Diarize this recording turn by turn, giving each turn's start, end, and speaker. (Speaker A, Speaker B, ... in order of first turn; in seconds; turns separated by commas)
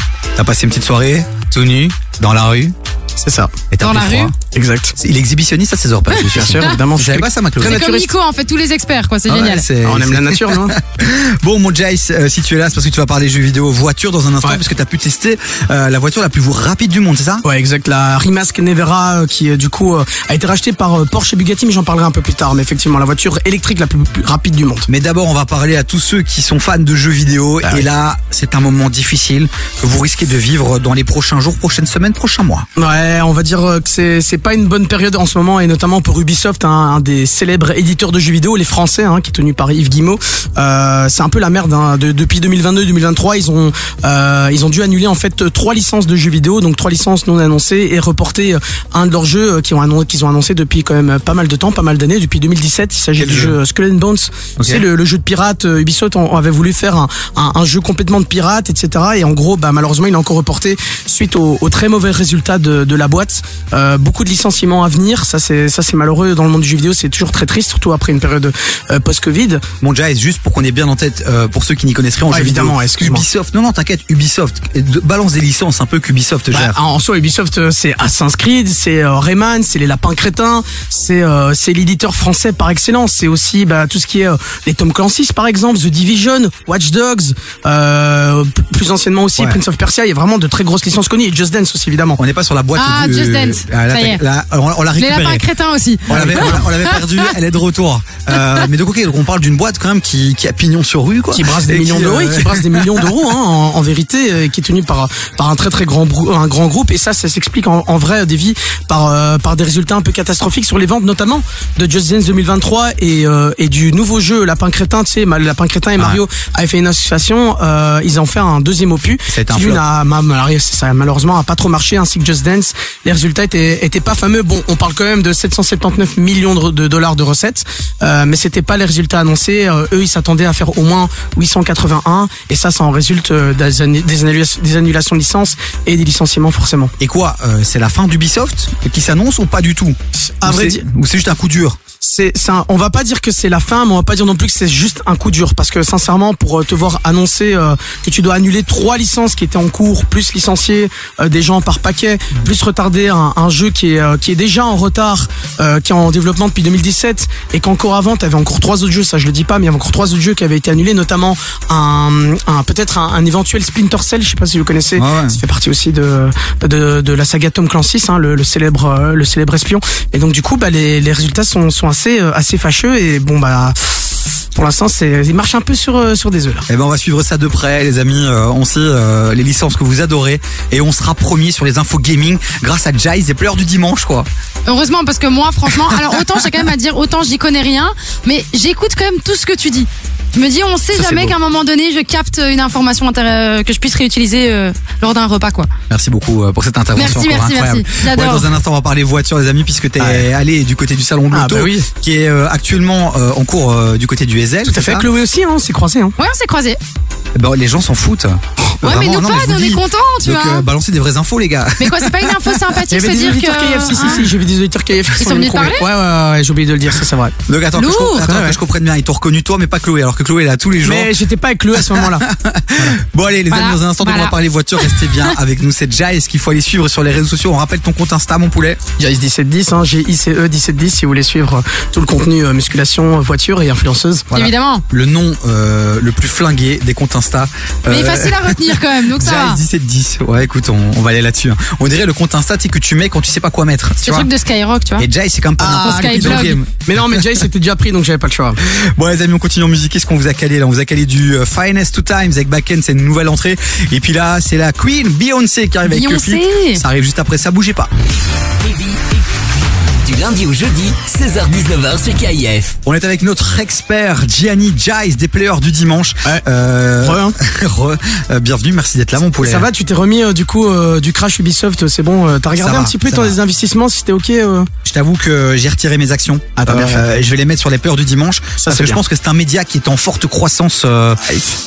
Speaker A: 0.4-2.7, Speaker B: 3.2-3.5, Speaker A: 3.7-4.3, Speaker C: 3.8-4.3, Speaker B: 4.5-5.0, Speaker A: 5.0-7.8, Speaker C: 6.1-6.8, Speaker B: 6.2-8.1, Speaker C: 7.6-9.7, Speaker A: 9.3-17.4, Speaker B: 9.8-10.8, Speaker B: 17.4-24.9, Speaker A: 24.9-32.6, Speaker B: 32.8-69.6, Speaker A: 53.2-53.6, Speaker A: 54.6-54.8, Speaker A: 69.8-76.8, Speaker B: 72.3-73.3, Speaker B: 76.5-92.2, Speaker A: 92.2-95.4, Speaker C: 92.8-94.2, Speaker C: 95.0-97.3, Speaker A: 96.1-103.1, Speaker B: 96.1-96.6, Speaker B: 101.3-136.9, Speaker A: 119.3-119.8, Speaker A: 137.0-141.8, Speaker B: 140.2-140.8, Speaker B: 142.0-176.7, Speaker A: 165.0-165.4, Speaker A: 176.7-184.3, Speaker C: 184.7-195.7, Speaker A: 190.9-191.3, Speaker A: 195.9-205.1, Speaker C: 196.9-198.5, Speaker B: 200.0-200.3, Speaker B: 201.3-201.9, Speaker B: 204.7-206.2, Speaker C: 206.2-206.8, Speaker A: 207.3-212.6, Speaker C: 208.8-210.7, Speaker C: 211.8-214.3, Speaker B: 212.9-217.3, Speaker C: 215.2-215.9, Speaker A: 217.5-221.1, Speaker C: 217.8-218.3, Speaker B: 218.2-218.6, Speaker B: 220.8-222.3, Speaker A: 221.8-228.8, Speaker C: 223.5-225.4, Speaker B: 229.0-234.3, Speaker A: 234.3-244.3, Speaker C: 234.3-234.8, Speaker C: 237.9-239.6, Speaker C: 244.0-245.1, Speaker A: 245.0-247.3, Speaker B: 245.6-248.6, Speaker C: 245.7-246.6, Speaker A: 248.7-257.9, Speaker C: 255.9-256.8, Speaker D: 258.6-259.0, Speaker D: 260.0-262.8, Speaker A: 262.8-269.7, Speaker B: 267.0-267.4, Speaker B: 269.4-274.7, Speaker A: 272.6-273.4, Speaker A: 274.9-281.2, Speaker B: 276.6-277.1, Speaker B: 278.6-279.0